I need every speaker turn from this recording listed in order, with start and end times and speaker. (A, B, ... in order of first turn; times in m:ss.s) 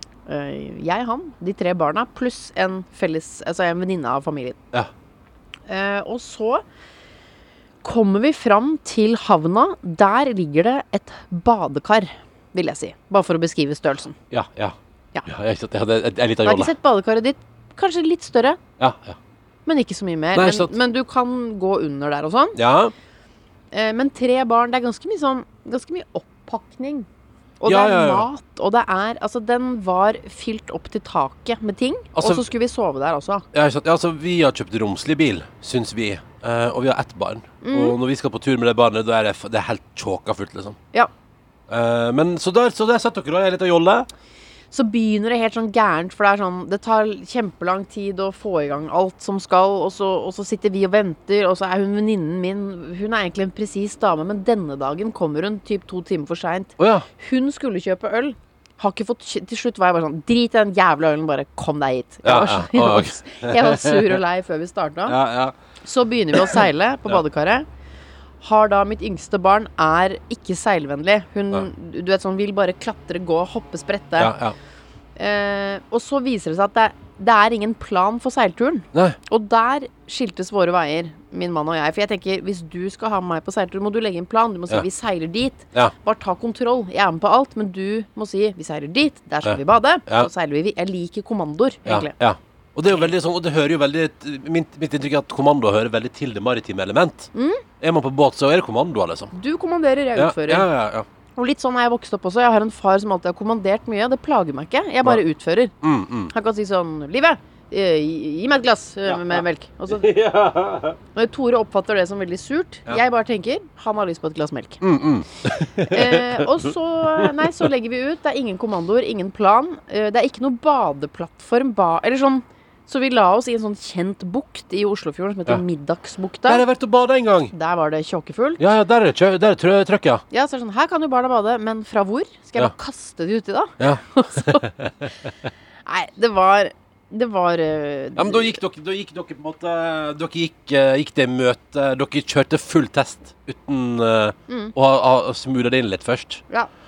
0:00.3-0:04.6 A
0:05.7-0:06.6 A
0:07.8-0:14.2 A
0:14.3-0:16.7 B
0:16.4-0:18.6 A
0:18.8-0:19.2 B
0:19.6-0:22.6 A
0:20.3-0:20.7 B
0:22.6-0:22.9 B
0:23.7-0:27.1 A
0:27.6-0:33.4 A
0:27.6-0:28.3 B
0:32.1-0:32.4 B
0:33.5-0:40.8 B
0:37.6-0:38.0 A
0:41.7-0:44.1 B
0:44.7-1:05.2 A
0:56.8-0:57.1 B
1:02.2-1:04.2 B
1:05.1-1:05.6 B
1:05.8-1:07.6 A
1:06.3-1:07.2 B
1:08.4-1:14.3 A
1:14.2-1:14.5 B
1:15.2-1:32.1 A
1:18.9-1:19.2 B
1:29.4-1:30.3 B
1:31.8-1:39.3 B
1:37.3-1:37.6 A
1:39.3-1:40.7 A
1:40.2-1:41.1 B
1:41.4-1:45.7 A
1:45.8-1:46.3 B
1:46.3-1:50.1 A
1:49.1-1:51.0 B
1:51.1-1:54.8 A
1:54.8-1:57.5 B
1:55.8-2:06.6 A
2:06.5-2:07.5 B
2:07.5-2:08.6 A
2:08.6-2:10.2 B
2:10.3-2:14.7 A
2:13.8-2:15.2 B
2:15.8-2:18.6 A
2:18.2-2:26.4 B
2:24.5-2:24.7 A